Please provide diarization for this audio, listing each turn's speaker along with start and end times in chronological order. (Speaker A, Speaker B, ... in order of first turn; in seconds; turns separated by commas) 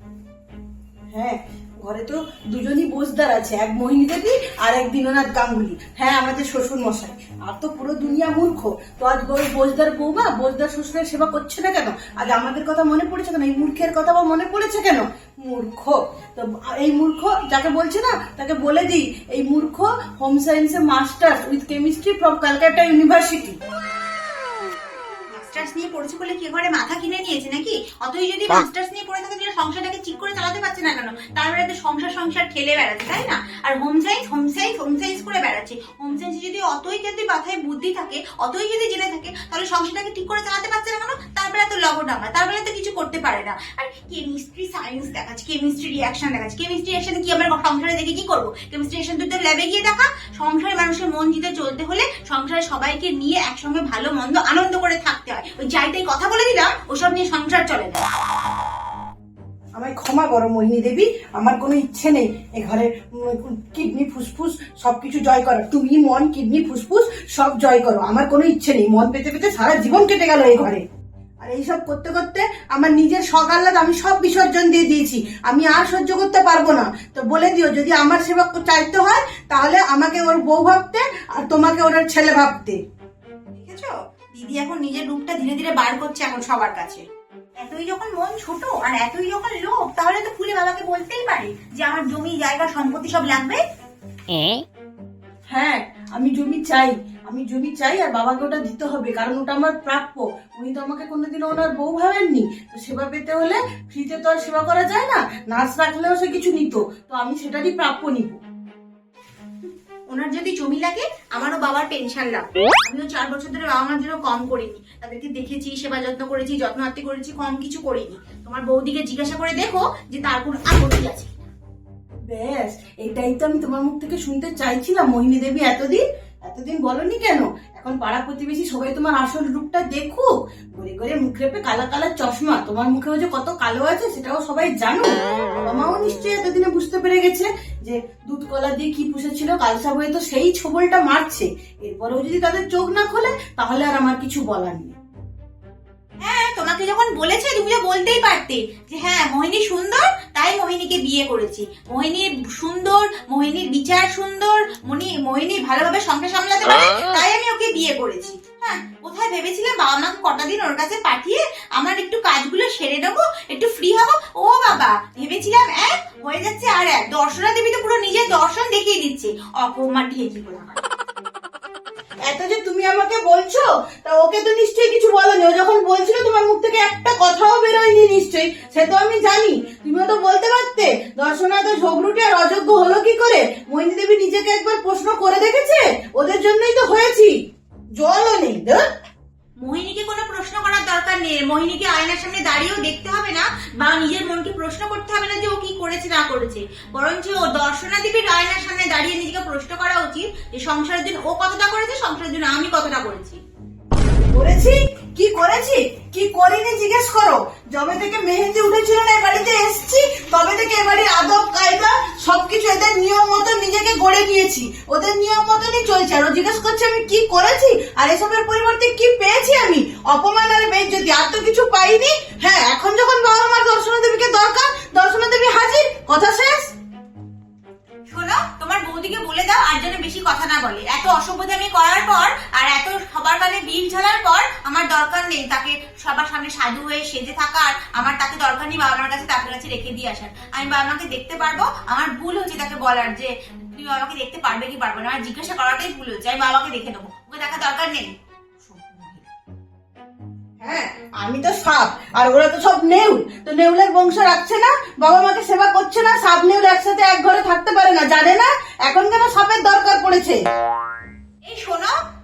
Speaker A: 1.1-23.6, Speaker B: 25.3-58.0, Speaker A: 59.7-70.8, Speaker A: 71.4-82.8, Speaker B: 83.5-87.0, Speaker B: 87.6-93.6, Speaker A: 95.5-108.4, Speaker B: 109.6-121.5, Speaker A: 122.3-144.9, Speaker B: 146.2-170.8, Speaker A: 172.2-187.3, Speaker A: 188.0-188.8, Speaker B: 189.6-203.4, Speaker A: 204.3-226.7, Speaker B: 228.1-249.3, Speaker A: 250.6-260.4, Speaker B: 261.5-261.9